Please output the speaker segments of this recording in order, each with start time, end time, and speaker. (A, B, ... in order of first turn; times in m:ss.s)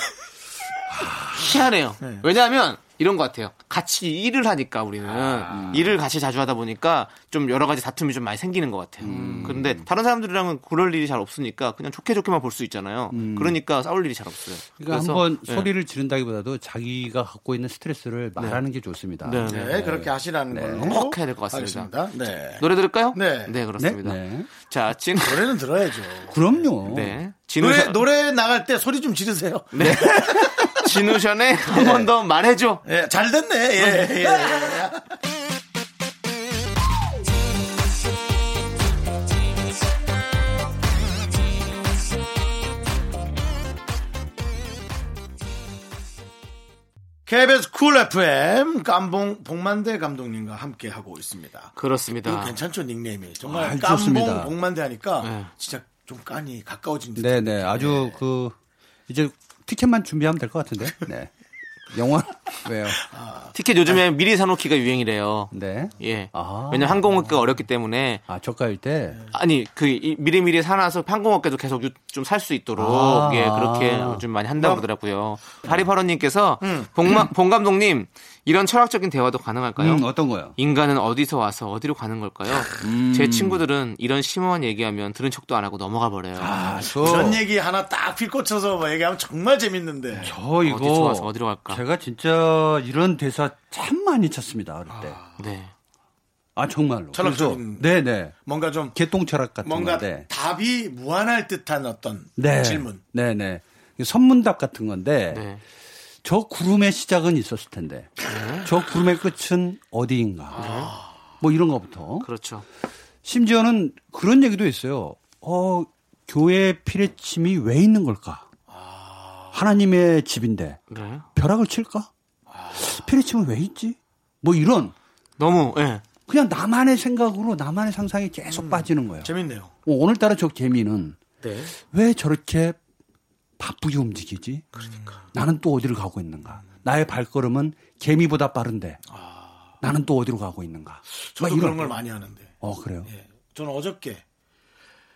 0:01.0-0:01.3 A
0:01.3-0:15.7 B
0:05.2-0:05.5 C
0:05.5-0:06.0 A
0:09.0-0:09.8 A
0:13.1-0:13.6 A
0:14.8-0:21.0 A
0:19.2-0:19.8 B
0:19.4-0:23.5 C
0:20.9-0:21.9 B
0:22.6-0:25.5 B
0:23.8-0:24.5 A
0:25.2-0:26.7 C
0:26.3-0:27.2 A
0:26.9-0:28.1 B
0:27.6-0:31.0 C
0:29.7-0:32.8 B
0:29.8-0:30.2 A
0:31.7-0:32.1 C
0:32.8-0:35.2 C
0:33.8-0:34.1 B
0:47.3-0:58.2 C
0:51.8-0:52.6 B
0:53.5-0:54.5 A
0:55.2-0:55.5 B
0:57.2-0:58.6 A
0:59.1-1:01.3 A
1:01.9-1:03.1 A
1:03.1-1:03.9 C
1:03.5-1:08.2 B
1:05.5-1:07.3 A
1:08.3-1:09.2 A
1:09.3-1:26.6 B
1:12.8-1:14.2 A
1:14.6-1:14.8 C
1:16.6-1:16.9 C
1:19.8-1:20.6 A
1:22.8-1:23.6 A
1:26.4-1:27.4 A
1:26.9-1:30.4 C
1:30.2-1:35.2 A
1:30.6-1:31.8 B
1:34.9-1:35.4 C
1:35.4-1:35.7 B
1:36.6-1:38.4 A
1:37.1-1:39.0 C
1:38.9-1:40.3 A
1:39.6-1:43.0 C
1:42.4-1:45.4 A
1:45.3-1:45.6 B
1:46.2-1:48.1 A
1:48.3-1:48.7 B
1:48.6-1:50.6 A
1:50.6-1:51.0 C
1:50.6-1:50.9 B
1:51.4-1:52.3 A
1:52.2-1:52.6 B
1:53.2-1:58.4 A
1:58.7-1:59.6 C
1:59.5-2:00.8 A
2:00.9-2:01.3 B
2:01.4-2:02.1 A
2:02.5-2:03.0 C
2:02.8-2:04.9 A
2:05.4-2:06.1 B
2:06.3-2:09.3 A
2:08.5-2:09.7 C
2:09.9-2:11.2 A
2:11.4-2:11.7 B
2:11.8-2:12.8 A
2:13.6-2:14.7 A
2:14.8-2:15.2 B
2:15.3-2:19.0 A
2:19.1-2:19.7 C
2:19.8-2:21.9 A
2:21.3-2:24.2 C
2:22.6-2:23.1 A